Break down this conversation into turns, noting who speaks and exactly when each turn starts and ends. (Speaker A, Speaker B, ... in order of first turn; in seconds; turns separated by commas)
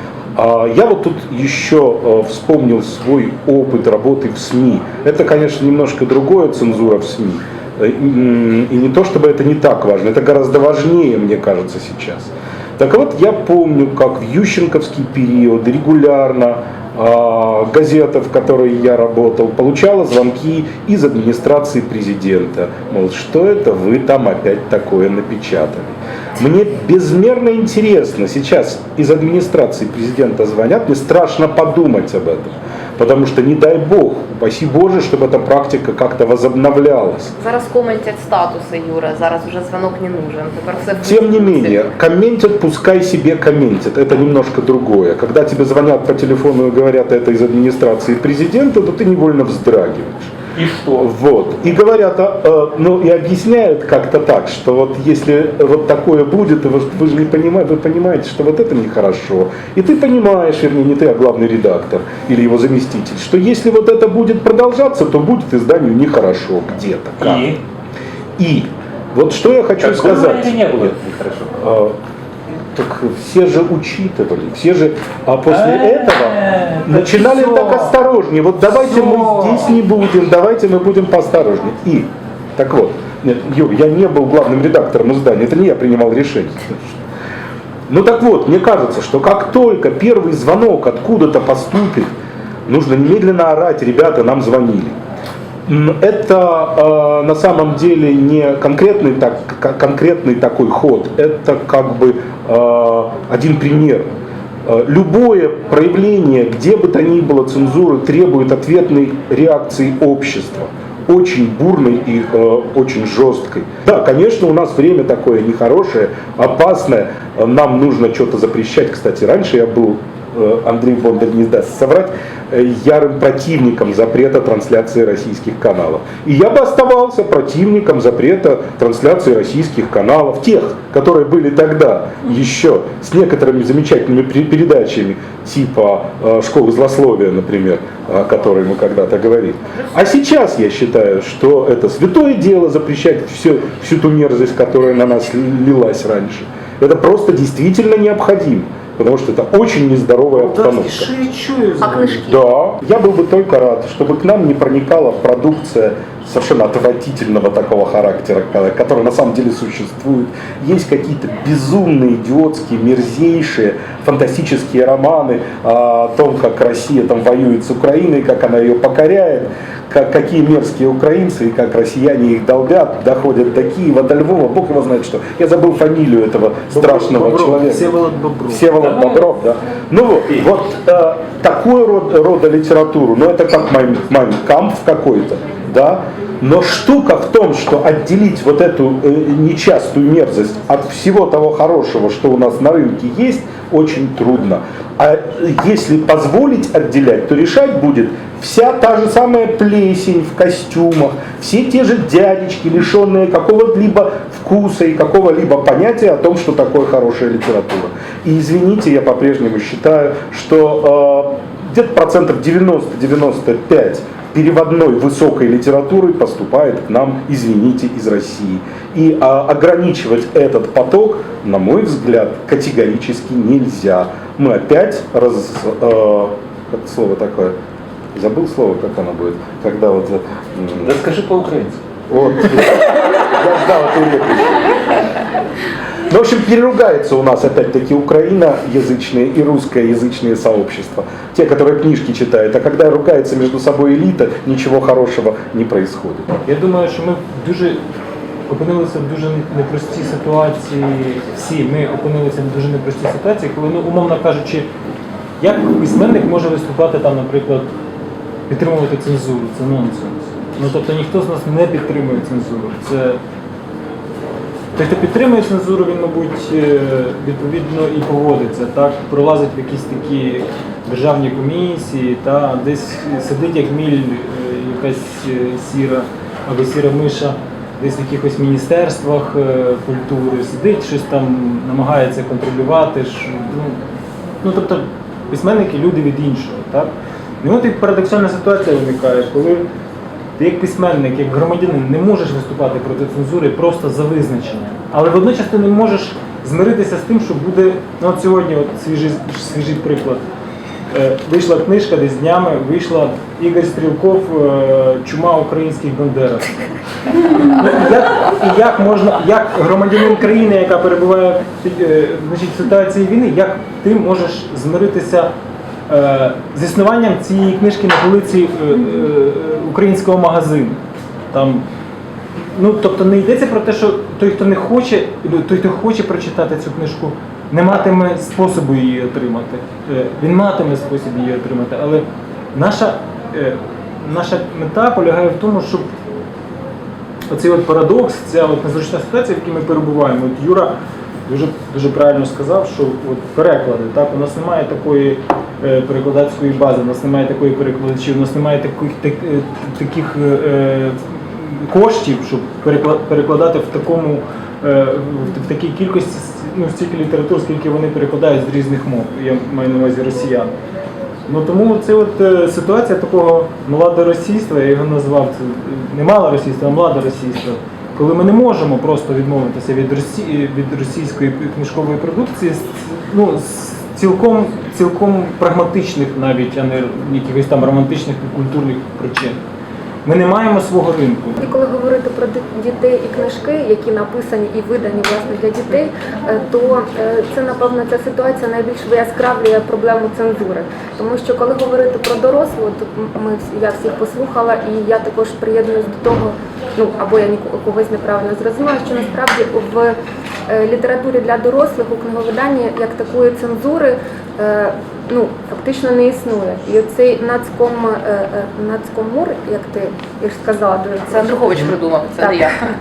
Speaker A: 0.3-37.3, Speaker B: 37.4-41.8, Speaker A: 41.0-50.3, Speaker C: 50.5-51.1, Speaker A: 51.0-67.5, Speaker C: 67.2-67.6, Speaker A: 68.4-70.9, Speaker C: 69.8-71.5, Speaker A: 71.6-71.9, Speaker A: 72.7-87.0, Speaker C: 75.5-77.9, Speaker C: 78.6-79.7, Speaker A: 87.9-92.1, Speaker A: 92.7-95.0, Speaker A: 95.7-104.1, Speaker A: 104.7-151.1, Speaker D: 150.3-152.2, Speaker B: 151.8-152.4, Speaker A: 152.2-177.9, Speaker D: 176.7-178.6, Speaker A: 178.5-227.5, Speaker C: 178.8-179.3, Speaker A: 228.1-230.9, Speaker C: 230.8-231.8, Speaker A: 232.1-234.6, Speaker A: 236.1-246.3, Speaker D: 246.4-247.8, Speaker D: 248.5-254.7, Speaker D: 255.4-257.7, Speaker D: 258.5-263.2, Speaker D: 264.8-283.8, Speaker D: 284.4-286.9, Speaker D: 287.4-289.6, Speaker D: 290.4-300.2, Speaker D: 300.9-306.6, Speaker D: 307.5-315.3, Speaker D: 315.9-320.8, Speaker D: 321.3-321.6, Speaker D: 322.5-335.9, Speaker D: 337.3-340.7, Speaker D: 341.3-360.5, Speaker D: 361.3-379.4, Speaker D: 380.0-381.4, Speaker E: 381.4-399.9, Speaker E: 400.5-412.5, Speaker B: 411.1-412.5